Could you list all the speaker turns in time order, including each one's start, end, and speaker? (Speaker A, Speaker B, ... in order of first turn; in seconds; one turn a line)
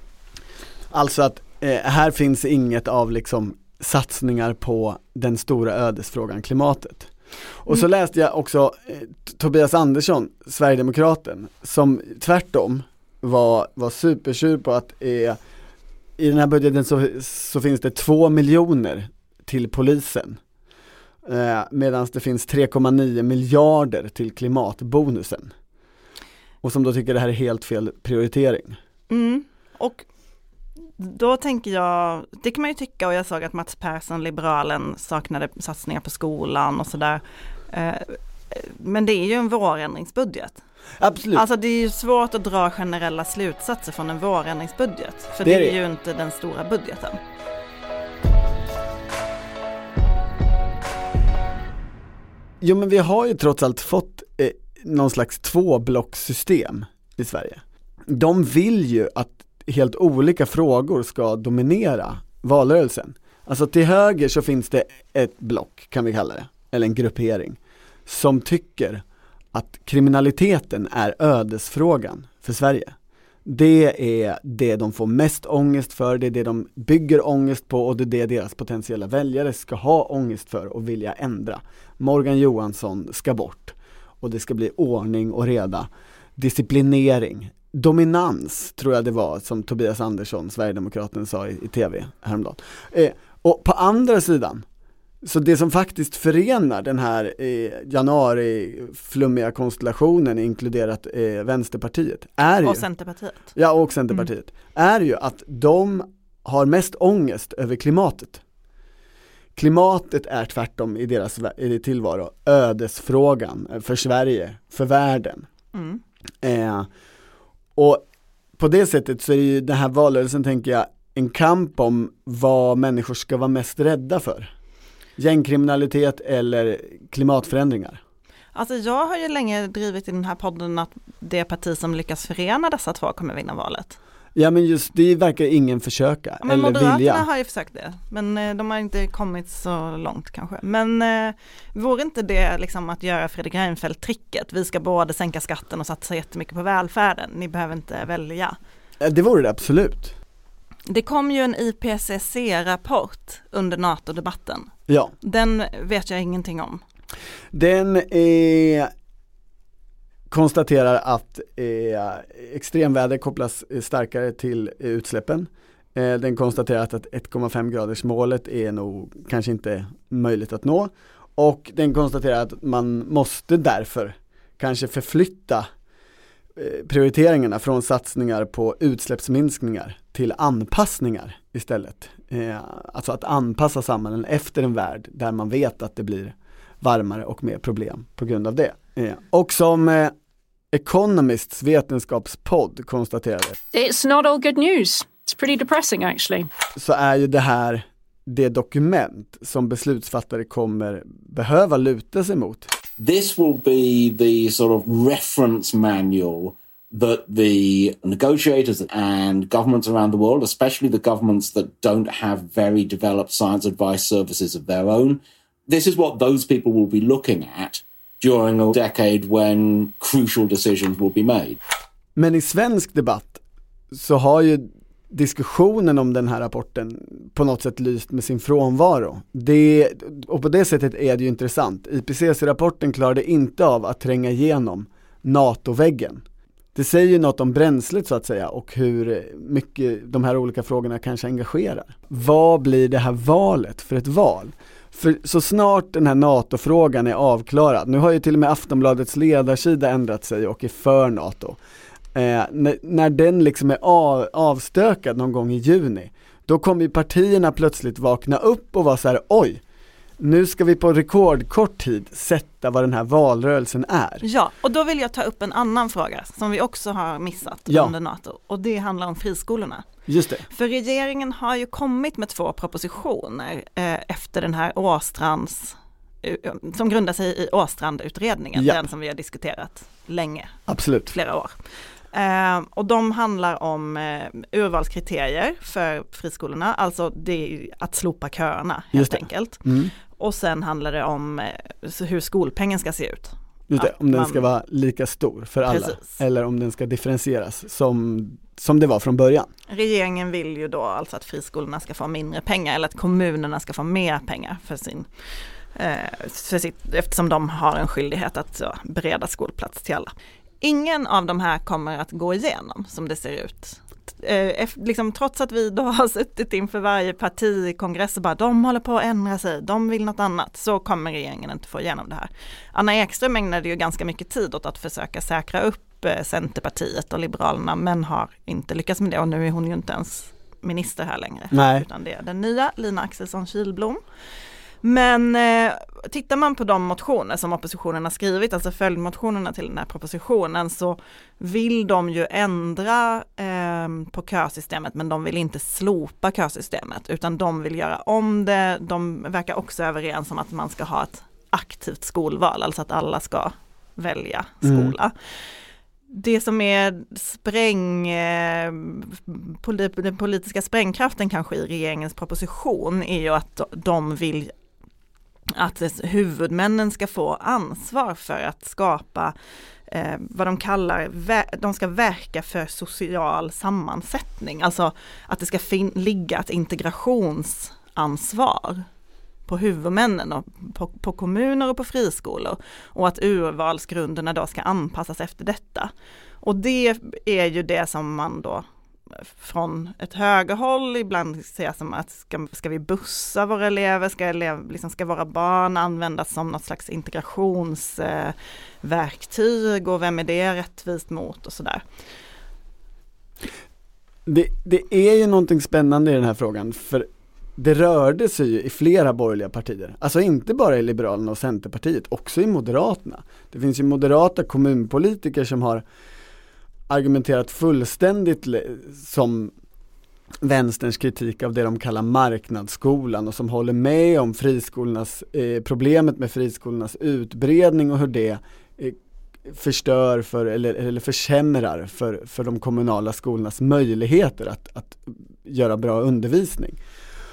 Speaker A: 0.9-7.1
Speaker A: 7.6-15.4
Speaker A: 16.2-20.4
Speaker A: 21.2-25.5
Speaker A: 26.6-28.8
Speaker B: 29.1-30.0
Speaker B: 31.0-40.6
Speaker A: 41.0-41.4
Speaker B: 41.3-47.2
Speaker A: 45.4-45.8
Speaker A: 52.6-94.6
Speaker A: 95.2-102.8
Speaker B: 102.6-103.5
Speaker A: 103.5-108.4
Speaker A: 109.5-115.5
Speaker B: 115.7-116.0
Speaker A: 116.4-116.9
Speaker A: 117.8-118.0
Speaker A: 118.6-124.5
Speaker A: 125.2-128.0
Speaker B: 128.5-134.0
Speaker A: 134.3-137.2
Speaker B: 136.4-148.6
Speaker A: 149.0-150.1
Speaker B: 150.9-154.7
Speaker A: 154.9-155.1
Speaker B: 155.2-156.8
Speaker A: 157.5-158.9
Speaker A: 160.3-175.7
Speaker A: 176.6-190.1
Speaker A: 190.7-193.6
Speaker C: 193.7-196.5
Speaker A: 196.8-202.7
Speaker D: 203.0-221.6
Speaker A: 222.2-236.2
Speaker A: 236.7-251.6
Speaker A: 252.1-259.6
Speaker A: 260.2-264.2
Speaker B: 264.2-269.8
Speaker A: 267.7-267.9
Speaker A: 270.1-270.4
Speaker B: 270.5-280.6
Speaker A: 278.6-278.8
Speaker A: 280.7-281.1
Speaker B: 281.1-281.5
Speaker B: 282.1-289.6
Speaker A: 288.9-289.9
Speaker B: 290.2-294.5
Speaker A: 293.7-299.5
Speaker B: 295.7-296.1
Speaker B: 299.7-305.1
Speaker B: 305.7-334.0
Speaker A: 331.5-331.9
Speaker B: 334.8-355.1
Speaker A: 354.6-354.9
Speaker B: 356.1-364.5
Speaker B: 365.5-369.3
Speaker B: 369.9-378.8
Speaker B: 379.5-385.9
Speaker B: 386.4-401.8
Speaker A: 404.2-415.8
Speaker A: 416.9-419.5
Speaker A: 420.4-436.8